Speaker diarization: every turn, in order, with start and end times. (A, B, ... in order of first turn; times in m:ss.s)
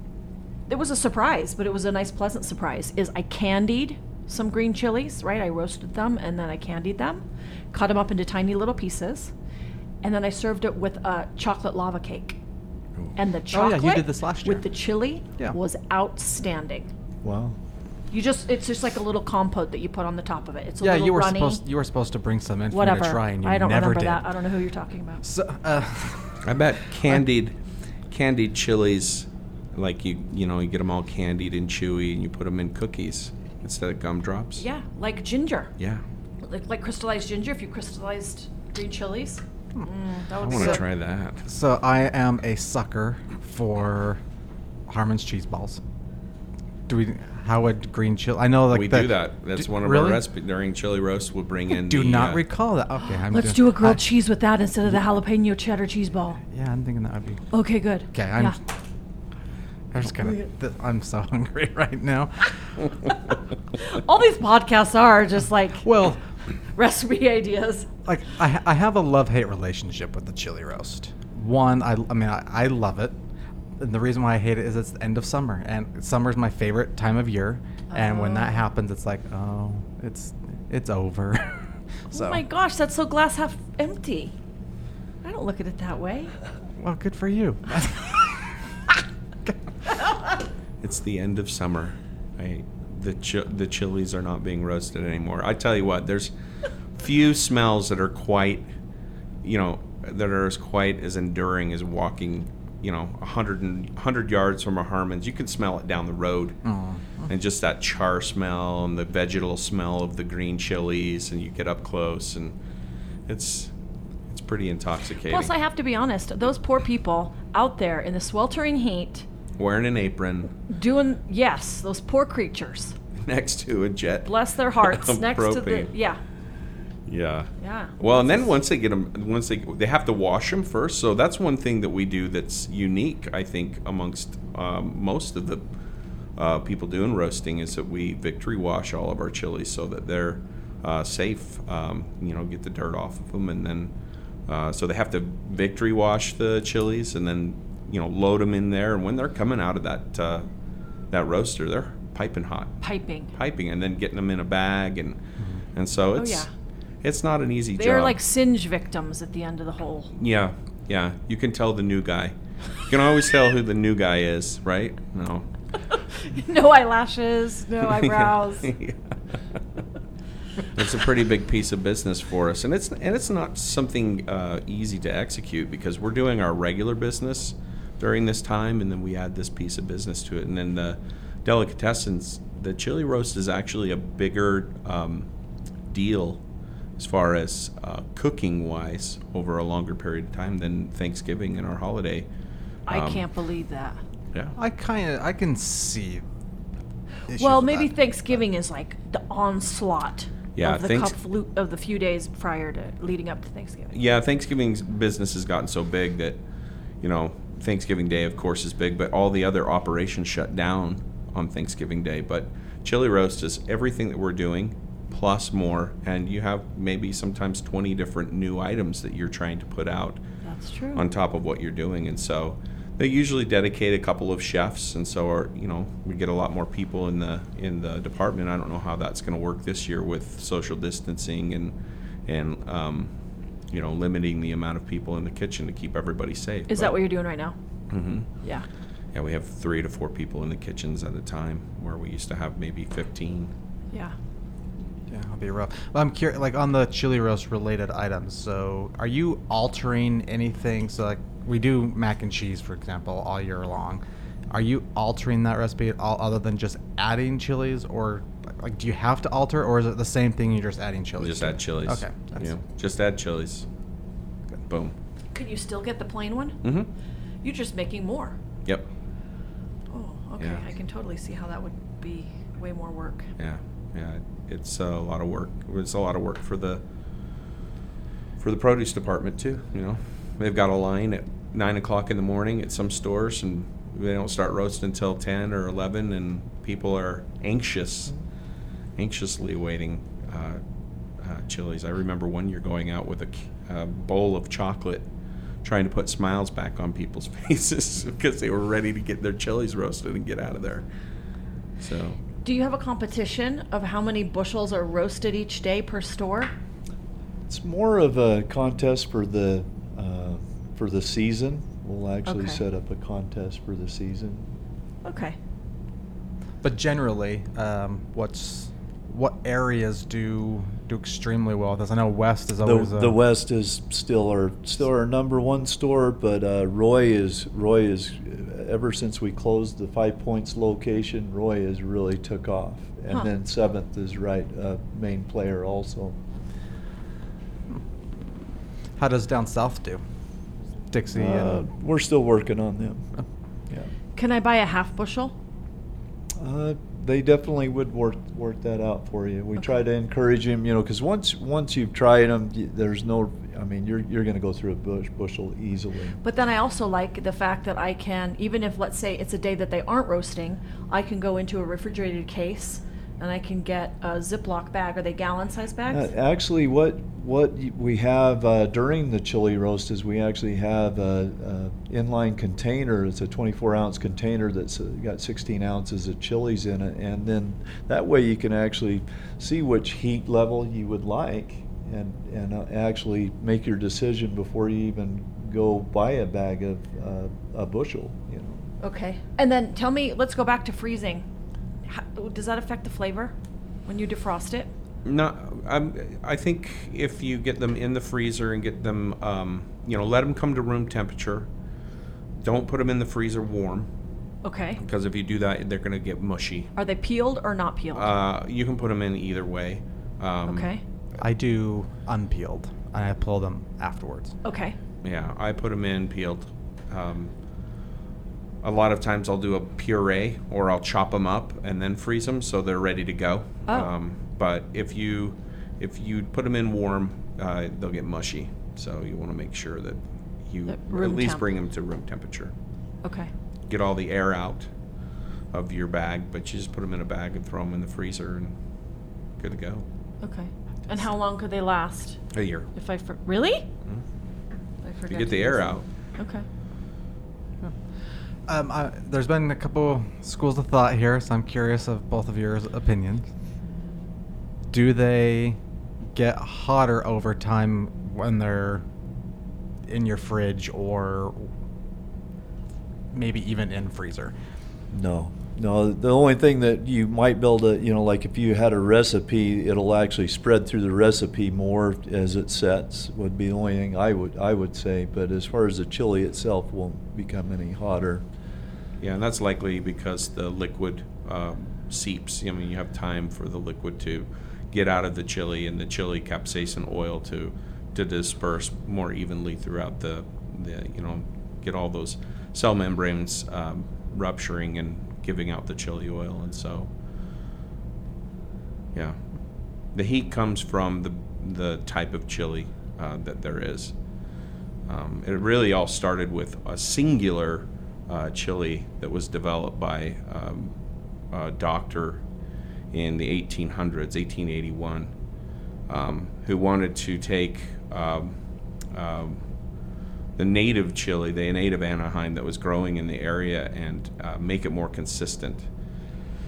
0:00.7-0:09.3 A
0:10.0-0:12.4 A
0:13.2-0:16.9 A
0:13.5-0:14.6 B
0:17.2-0:17.6 C
0:18.1-0:21.6 A
0:20.8-0:24.2 B
0:22.7-0:25.2 A
0:25.2-0:26.4 B
0:26.4-0:27.5 D
0:28.1-0:34.6 D
0:34.6-0:35.7 A
0:36.4-0:40.8 A
0:40.4-0:40.8 B
0:40.5-0:41.4 D
0:41.5-0:44.2 B
0:44.9-0:45.8 B
0:46.9-0:50.2 B
0:48.7-0:52.4 D
0:51.9-0:54.0 B
0:53.3-0:56.4 A
0:56.5-0:57.4 B
0:57.5-0:58.6 A
0:58.1-0:58.6 B
0:59.9-1:02.9 B
1:03.9-1:05.8 A
1:05.8-1:06.2 B
1:06.7-1:07.9 A
1:08.0-1:13.2 B
1:13.8-1:22.4 B
1:17.9-1:18.6 A
1:22.1-1:24.3 A
1:25.2-1:26.3 A
1:26.8-1:28.5 B
1:30.8-1:36.3 D
1:37.0-1:38.6 D
1:39.4-1:46.6 D
1:46.6-1:47.0 B
1:47.3-1:52.5 D
1:53.3-1:53.7 D
1:54.3-1:55.5 D
1:55.3-1:59.2 A
1:59.6-2:00.5 D
2:00.7-2:02.9 A
2:03.2-2:05.9 D
2:04.2-2:06.2 A
2:07.1-2:15.6 D
2:07.6-2:08.5 A
2:16.4-2:23.9 D
2:24.5-2:30.5 D
2:31.1-2:32.8 D
2:32.8-2:33.3 A
2:33.3-2:35.2 D
2:35.7-2:36.5 D
2:36.2-2:36.5 A
2:37.0-2:38.2 D
2:37.8-2:40.1 A
2:40.1-2:45.5 D
2:46.2-2:48.7 A
2:47.9-2:49.1 D
2:50.7-3:05.3 D
3:05.9-3:06.4 D
3:07.0-3:12.3 D
3:12.9-3:14.0 A
3:12.9-3:13.2 D
3:14.6-3:16.2 B
3:17.3-3:17.9 B
3:17.3-3:23.9 A
3:20.5-3:21.1 D
3:23.9-3:26.4 D
3:27.0-3:40.2 D
3:40.4-3:41.0 A
3:40.9-3:51.7 D
3:52.3-3:53.1 D
3:53.7-3:57.0 D
3:56.7-3:57.5 A
3:57.9-3:58.3 D
3:59.1-4:03.5 D
4:05.1-4:22.5 B
4:21.2-4:23.6 D
4:24.7-4:24.9 D
4:25.3-4:26.6 A
4:26.6-4:26.9 D
4:27.4-4:28.4 A
4:29.9-4:33.3 A
4:33.4-4:36.8 D
4:38.4-4:48.1 D
4:49.0-4:50.6 D
4:51.2-4:55.0 D
4:55.6-5:00.8 D
5:01.8-5:02.2 D
5:02.4-5:06.5 A
5:07.5-5:14.5 C
5:12.2-5:12.6 A
5:15.0-5:15.4 A
5:16.6-5:23.2 B
5:22.6-5:36.2 C
5:39.0-5:40.0 B
5:40.9-5:41.6 B
5:41.1-5:43.0 C
5:44.2-5:45.3 A
5:46.4-5:56.2 C
5:56.2-6:06.1 A
6:05.9-6:28.7 C
6:28.8-6:31.2 A
6:31.8-6:33.3 A
6:33.8-6:34.7 A
6:35.0-6:41.5 D
6:42.4-6:43.9 D
6:44.4-6:44.8 A
6:44.8-6:46.7 D
6:46.8-6:48.1 A
6:47.9-6:50.7 D
6:50.5-6:50.8 A
6:51.2-6:54.3 B
6:54.4-6:54.8 A
6:55.0-6:57.3 D
6:58.6-7:12.5 D
7:03.7-7:03.9 A
7:10.7-7:11.5 A
7:13.0-7:13.3 A
7:13.7-7:14.7 D
7:15.5-7:18.5 D
7:19.4-7:19.8 D
7:20.2-7:22.2 A
7:22.3-7:22.7 D
7:22.7-7:23.6 A
7:24.8-7:26.4 A
7:25.1-7:25.8 D
7:28.5-7:33.2 B
7:34.7-7:35.6 B
7:36.1-7:38.8 B
7:39.9-7:41.5 B
7:43.1-7:44.3 B
7:44.9-7:58.2 C
7:59.0-8:16.9 D
8:19.9-8:23.9 D
8:24.9-8:30.7 D
8:31.3-8:32.2 D
8:32.9-8:35.1 D
8:35.9-8:38.3 D
8:38.9-8:39.4 D
8:40.4-8:45.7 D